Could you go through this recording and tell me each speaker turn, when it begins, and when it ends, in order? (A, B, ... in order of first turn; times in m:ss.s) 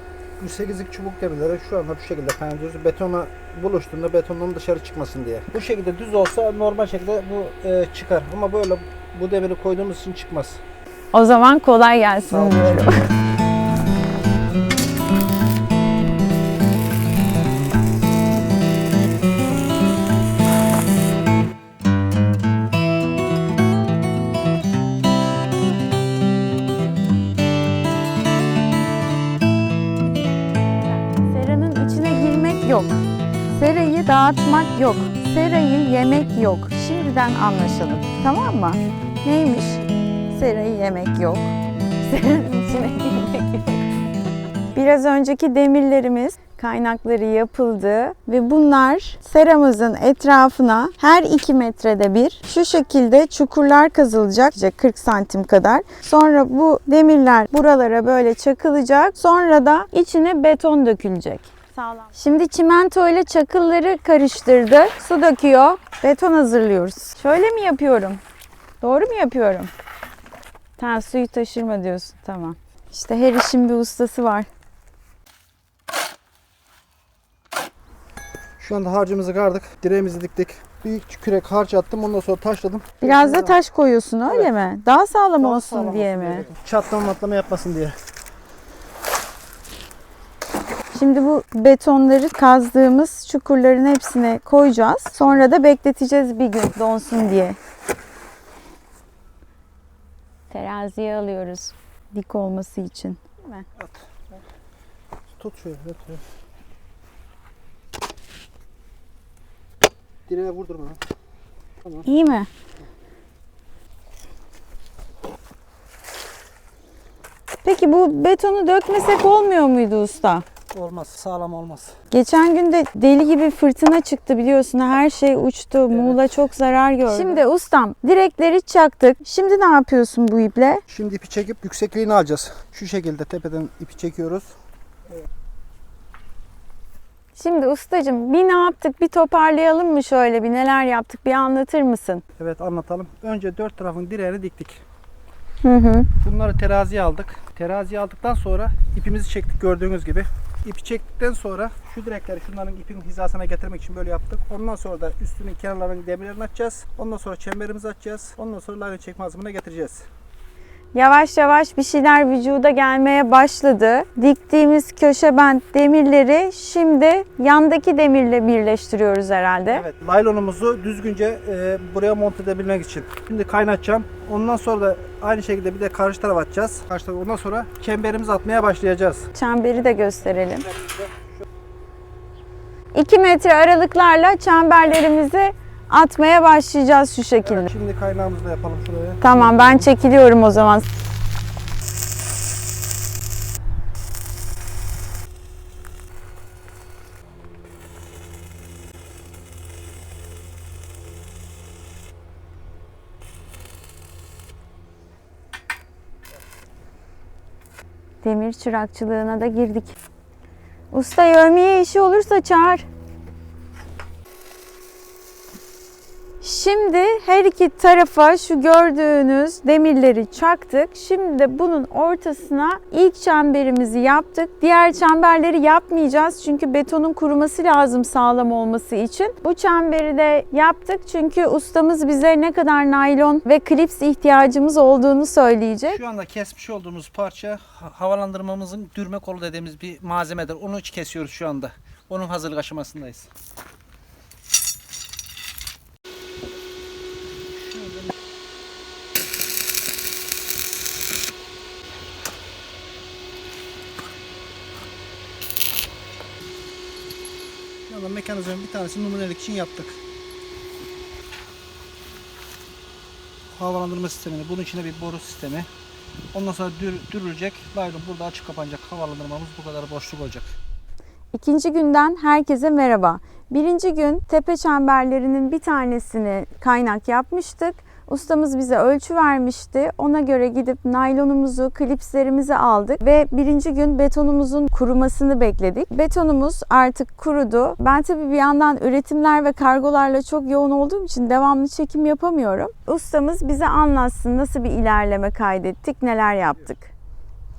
0:00.4-0:10.6 A
0:11.1-0:13.1 B
0:12.3-0:13.0 A
0:31.1-0:43.9 B
0:44.8-1:08.2 B
1:08.8-1:09.7 B
1:10.8-1:14.5 B
1:18.6-1:23.6 A
1:23.0-1:26.5 B
1:24.3-1:24.5 A
1:25.4-1:28.0 A
1:30.9-1:37.6 B
1:35.2-1:35.5 A
1:40.5-1:43.7 B
1:43.8-1:44.4 A
1:45.4-1:46.2 A
1:50.3-1:51.0 A
1:51.8-1:52.3 A
1:52.0-1:52.5 B
1:57.6-2:00.4 B
2:00.7-2:02.0 A
2:02.1-2:10.8 B
2:05.9-2:06.3 A
2:07.0-2:07.4 A
2:10.9-2:14.5 A
2:17.4-2:22.2 B
2:22.4-2:24.8 A
2:25.6-2:26.1 B
2:26.2-2:40.1 A
2:40.9-2:49.8 B
2:49.7-2:59.3 A
2:59.3-3:00.7 B
2:59.9-3:01.4 A
3:02.9-3:07.7 B
3:07.4-3:10.0 A
3:09.2-3:10.9 B
3:28.2-3:30.0 B
3:30.9-3:32.9 B
3:36.4-3:56.0 B
3:55.9-4:03.3 A
4:07.5-4:08.2 A
4:17.9-4:20.0 A
4:23.5-4:25.7 A
4:26.3-4:30.6 A
4:31.3-4:56.9 B